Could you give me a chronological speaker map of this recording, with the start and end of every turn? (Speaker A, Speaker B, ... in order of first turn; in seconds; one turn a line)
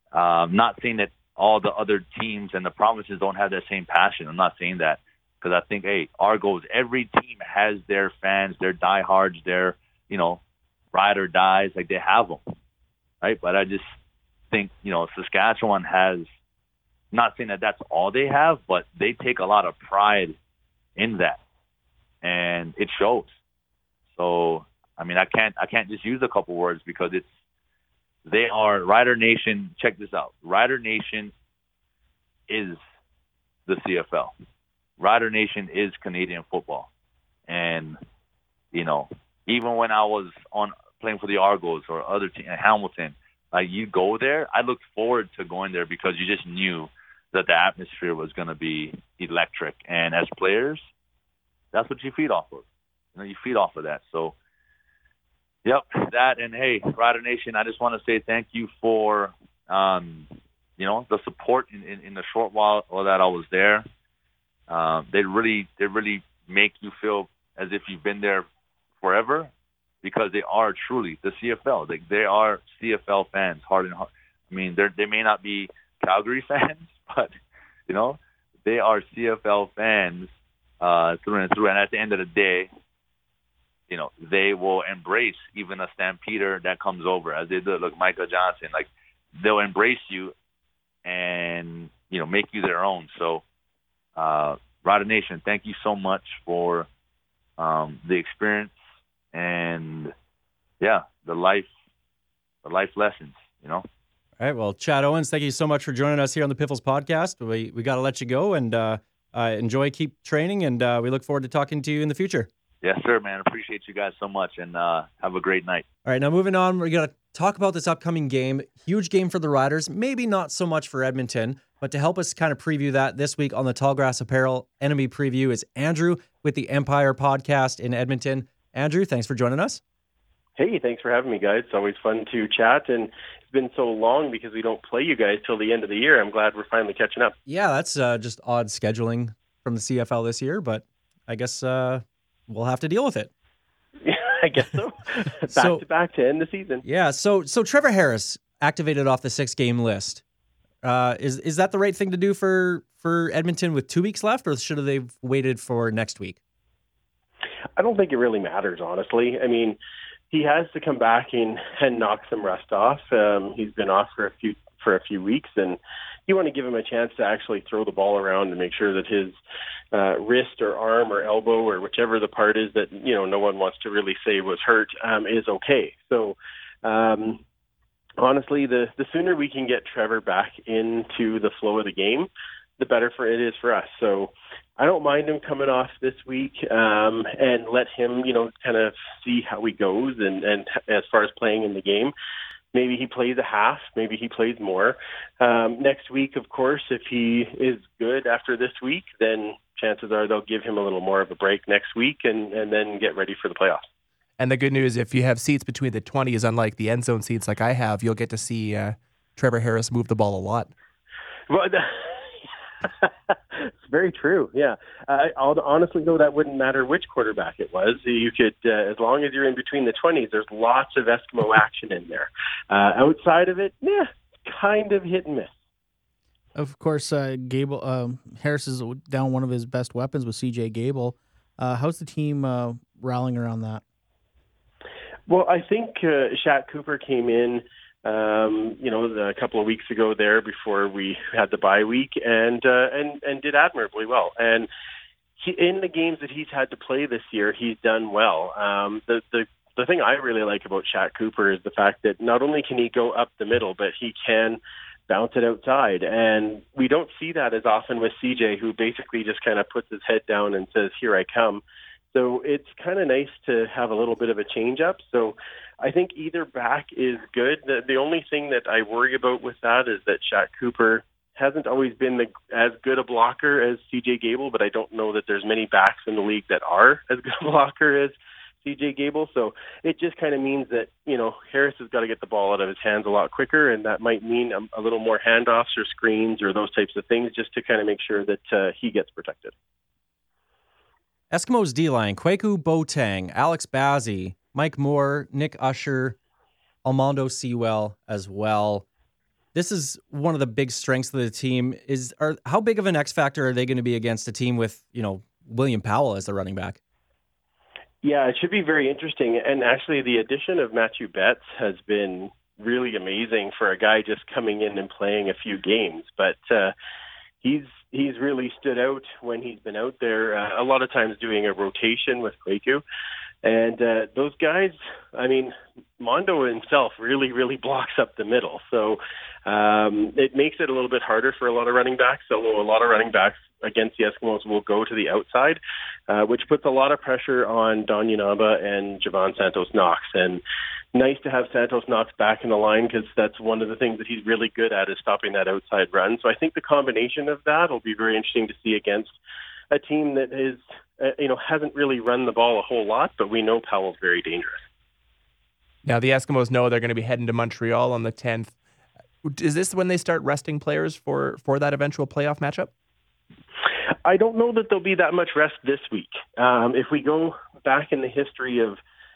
Speaker A: 0.1-10.4
Speaker A: 10.9-12.4
Speaker A: 13.2-14.0
Speaker A: 14.5-16.3
Speaker A: 17.1-20.4
Speaker A: 21.0-21.4
Speaker A: 22.2-23.3
Speaker A: 24.2-27.3
Speaker A: 28.3-31.3
Speaker A: 32.5-32.8
Speaker A: 33.7-34.3
Speaker A: 35.0-36.9
Speaker A: 37.5-38.0
Speaker A: 38.7-50.9
Speaker A: 51.7-54.3
Speaker A: 55.6-63.9
Speaker A: 64.7-68.5
Speaker A: 69.0-69.5
Speaker A: 70.0-77.3
Speaker A: 77.9-82.7
Speaker A: 83.9-90.3
Speaker A: 91.0-93.4
Speaker A: 94.2-96.9
Speaker A: 97.6-98.8
Speaker A: 99.3-100.1
Speaker A: 100.8-101.7
Speaker A: 102.6-103.9
Speaker B: 104.4-112.5
Speaker A: 112.8-115.8
Speaker B: 116.1-129.8
Speaker C: 130.6-137.3
Speaker B: 137.5-143.3
Speaker C: 144.0-146.8
Speaker B: 145.5-145.8
Speaker B: 146.8-150.2
Speaker B: 150.8-156.4
Speaker C: 157.8-159.8
Speaker C: 160.3-169.4
Speaker C: 169.9-177.4
Speaker C: 178.2-192.1
Speaker C: 192.7-203.8
Speaker D: 204.4-210.7
Speaker C: 211.5-225.5
Speaker E: 226.6-233.8
Speaker C: 235.3-244.7
Speaker C: 245.4-289.5
Speaker B: 291.3-296.2
Speaker B: 296.9-298.9
Speaker B: 299.5-306.8
Speaker C: 308.0-316.7
Speaker C: 317.4-322.8
Speaker C: 323.4-340.4
Speaker C: 340.9-349.1
Speaker C: 349.7-354.6
Speaker D: 355.8-358.6
Speaker D: 359.2-362.7
Speaker C: 364.1-368.8